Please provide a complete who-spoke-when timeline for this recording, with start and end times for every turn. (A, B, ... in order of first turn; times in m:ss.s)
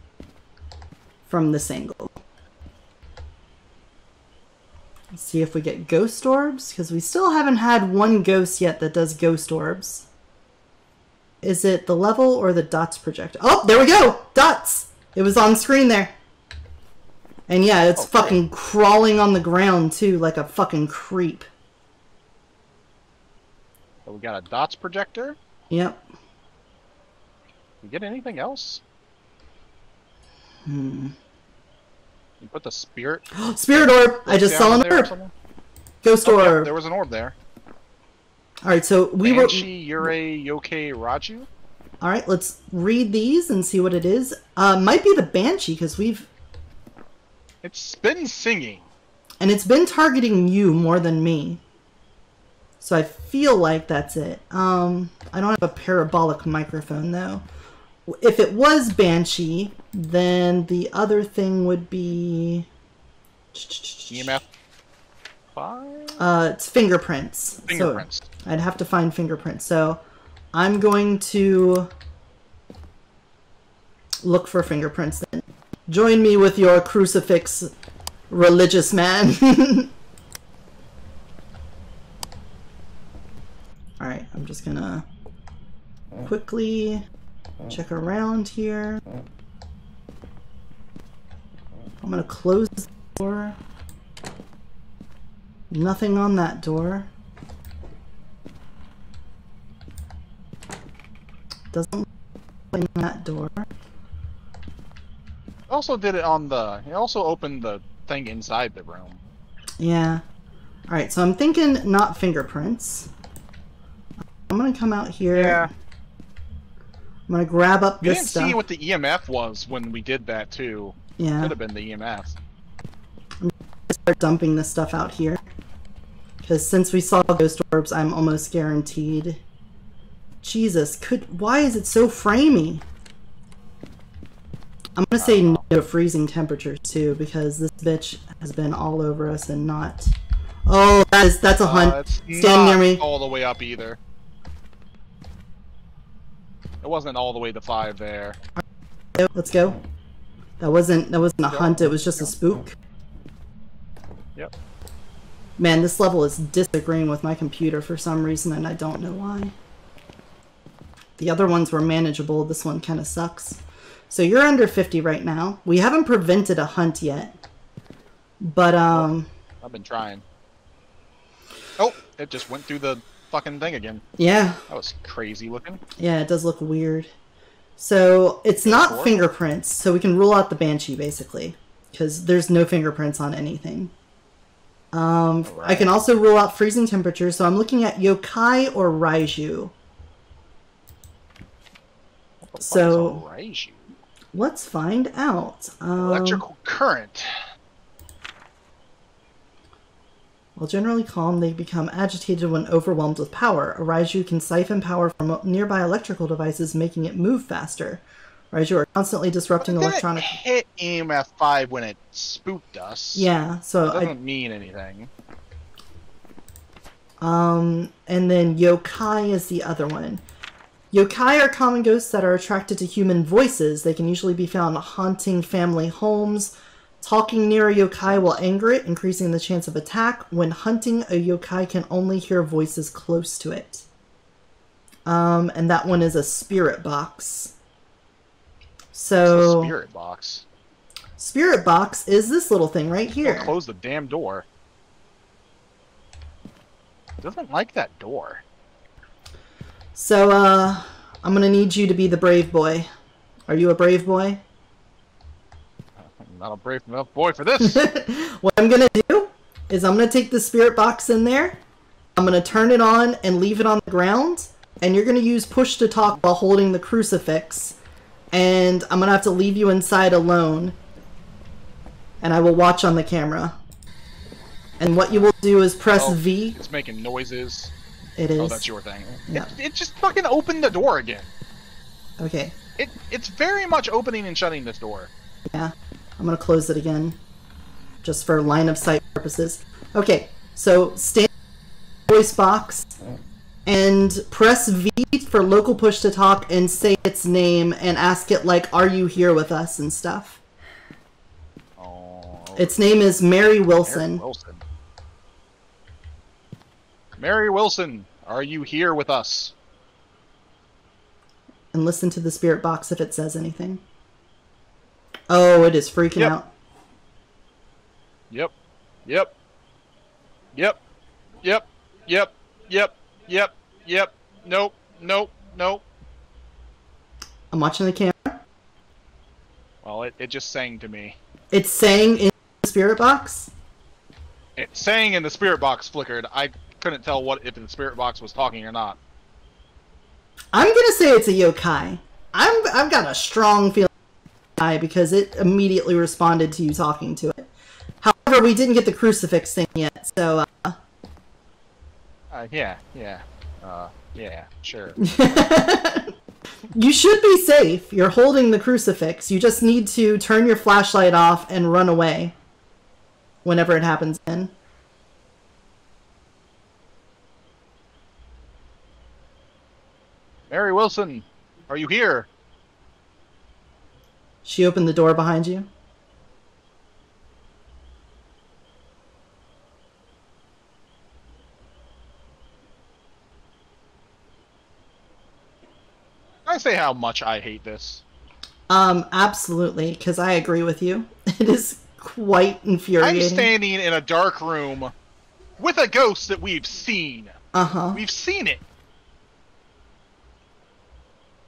0:01.3-0:02.2 A
0:05.1-0:10.1 A
0:11.4-0:16.1 A
0:17.5-0:21.5 A
0:18.0-0:18.4 B
0:24.1-0:25.4 B
0:25.7-0:26.0 A
0:27.8-0:28.8 B
0:30.6-0:31.1 A
0:32.4-0:35.3 B
0:33.3-0:35.1 A
0:36.0-0:36.7 A
0:36.2-0:37.4 B
0:38.6-0:40.1 A
0:39.2-0:41.5 B
0:42.0-0:46.3 A
0:47.6-0:48.8 B
0:49.4-0:51.6 A
0:52.8-0:57.4 A
0:58.1-1:02.7 A
1:03.5-1:04.4 A
1:04.1-1:04.4 B
1:05.5-1:06.3 B
1:06.2-1:10.0 A
1:07.7-1:08.3 B
1:10.5-1:11.9 A
1:14.2-1:17.7 A
1:18.3-1:19.9 A
1:24.0-1:25.0 A
1:26.2-1:27.0 A
1:27.7-1:29.0 A
1:32.0-1:33.6 A
1:35.7-1:37.1 A
1:41.7-1:42.1 A
1:42.7-1:43.7 A
1:45.7-1:49.2 B
1:49.8-1:50.2 A
1:50.9-1:53.1 A
1:54.5-1:55.7 A
1:55.3-1:55.7 B
1:57.3-1:58.6 A
1:58.0-2:02.4 B
2:01.2-2:01.6 A
2:03.4-2:05.4 A
2:06.4-2:09.4 A
2:10.4-2:12.8 A
2:15.0-2:20.1 A
2:15.2-2:15.6 B
2:20.7-2:23.0 A
2:21.6-2:24.0 B
2:26.8-2:28.4 B
2:29.2-2:29.8 A
2:30.6-2:32.7 A
2:31.4-2:32.3 B
2:35.6-2:39.5 A
2:41.2-2:47.4 A
2:48.4-2:49.3 A
2:49.6-2:50.2 B
2:51.8-2:54.0 B
2:54.2-2:54.6 A
2:54.7-2:55.8 B
2:56.0-2:57.1 A
2:57.8-3:03.9 A
2:58.6-2:59.3 B
3:04.9-3:09.7 A
3:05.4-3:05.9 B
3:12.4-3:13.9 B
3:12.6-3:13.2 A
3:14.3-3:16.4 A
3:16.0-3:17.4 B
3:20.6-3:30.4 A
3:29.6-3:33.3 B
3:33.1-3:34.1 A
3:33.8-3:35.1 B
3:37.2-3:40.2 A
3:40.9-3:53.8 A
3:48.0-3:48.4 B
3:55.1-3:57.5 A
3:58.9-3:59.7 A
3:59.2-4:00.4 B
4:01.2-4:03.5 A
4:03.2-4:04.4 B
4:07.2-4:08.4 B
4:10.0-4:12.9 A
4:13.5-4:14.4 A
4:16.0-4:17.8 B
4:17.6-4:21.6 A
4:22.2-4:27.8 A
4:28.3-4:30.8 A
4:32.2-4:33.6 A
4:34.8-4:36.6 A
4:35.9-4:37.7 B
4:38.2-4:38.7 A
4:38.4-4:41.3 B
4:42.2-4:42.6 A
4:42.8-4:45.1 B
4:45.5-4:47.2 A
4:48.0-4:51.3 A
4:52.1-4:52.9 A
4:53.6-5:00.4 A
5:01.8-5:02.8 B
5:02.6-5:04.2 A
5:03.8-5:04.6 B
5:07.2-5:09.5 B
5:11.7-5:13.8 A
5:15.3-5:16.5 A
5:19.1-5:19.3 B
5:21.4-5:25.8 B
5:27.5-5:28.4 A
5:29.8-5:31.2 B
5:31.5-5:33.5 A
5:34.6-5:39.0 B
5:40.5-5:43.9 A
5:44.6-5:47.5 A
5:48.0-5:50.8 A
5:52.3-5:55.0 B
5:55.0-5:56.1 A
5:56.7-6:02.4 A
6:03.4-6:04.5 A
6:10.5-6:12.3 B
6:14.4-6:15.7 A
6:26.4-6:28.0 B
6:28.7-6:33.5 A
6:33.0-6:34.9 B
6:35.6-6:37.4 B
6:37.5-6:38.0 A
6:37.9-6:38.6 B